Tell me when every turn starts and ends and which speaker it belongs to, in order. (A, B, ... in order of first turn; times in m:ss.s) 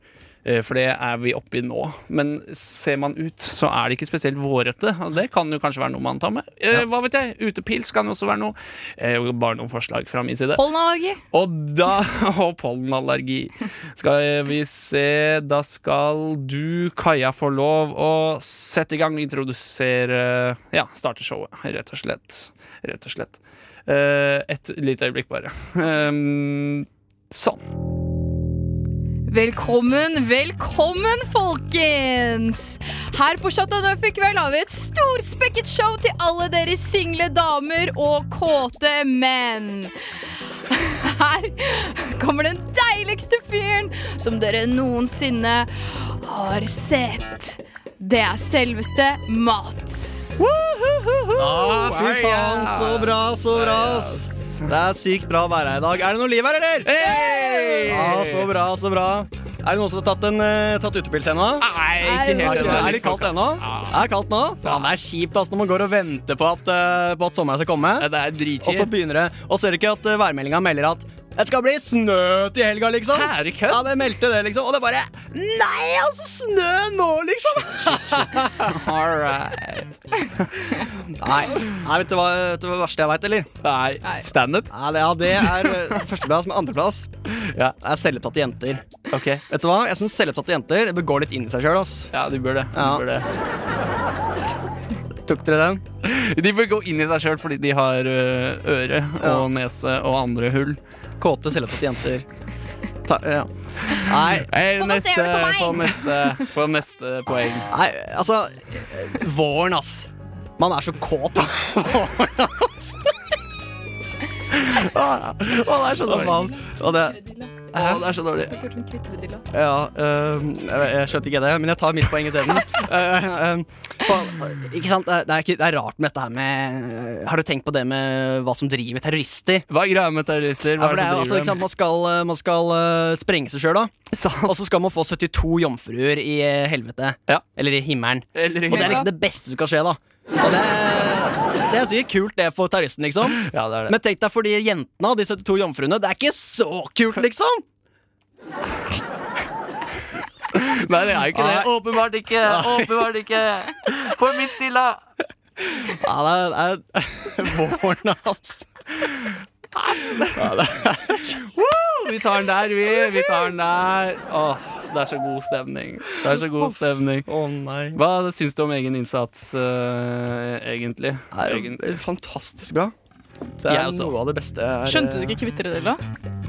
0:00.4-0:10.6 A
0:10.6-0:11.2 B
0:11.3-0:27.6 A
0:29.3-0:39.9 B
0:40.7-0:50.4 B
0:50.4-0:54.7 A
0:51.4-0:56.9 C
0:56.8-0:58.5 A
0:57.1-0:57.9 B
0:57.9-1:01.7 C
1:01.6-1:04.0 A
1:02.0-1:03.0 B
1:02.3-1:08.1 C
1:08.0-1:08.9 A
1:08.6-1:18.8 C
1:13.1-1:13.9 A
1:18.2-1:20.8 A
1:21.1-1:23.5 C
1:23.6-1:24.7 A
1:24.7-1:27.1 C
1:25.3-1:26.0 A
1:27.3-1:27.8 A
1:27.8-1:28.8 C
1:29.1-1:29.4 A
1:29.5-1:32.1 C
1:32.1-1:33.3 A
1:32.7-1:33.0 C
1:35.2-1:35.8 C
1:36.0-1:40.8 A
1:39.2-1:39.5 C
1:41.2-1:42.3 C
1:43.0-1:44.5 C
1:43.9-1:47.7 A
1:44.8-1:46.3 B
1:47.7-1:53.2 C
1:54.5-1:56.5 A
1:56.0-1:57.2 C
1:56.2-1:57.5 B
1:57.7-1:58.1 C
1:57.7-1:58.5 A
1:58.5-1:59.4 B
1:59.5-2:09.7 C
2:09.7-2:11.6 A
2:10.7-2:13.9 C
2:14.1-2:14.6 A
2:14.4-2:27.6 C
2:18.4-2:19.1 A
2:18.7-2:19.1 B
2:23.4-2:24.0 A
2:30.5-2:35.0 A
2:31.3-2:31.7 C
2:32.4-2:33.1 C
2:35.6-2:39.1 C
2:39.7-2:40.5 A
2:40.3-2:41.5 C
2:41.3-2:47.3 A
2:46.4-2:46.8 C
2:47.3-2:48.0 C
2:47.9-2:51.9 A
2:51.3-2:52.9 C
2:53.6-2:55.4 C
2:53.7-2:54.1 A
2:54.8-2:56.0 B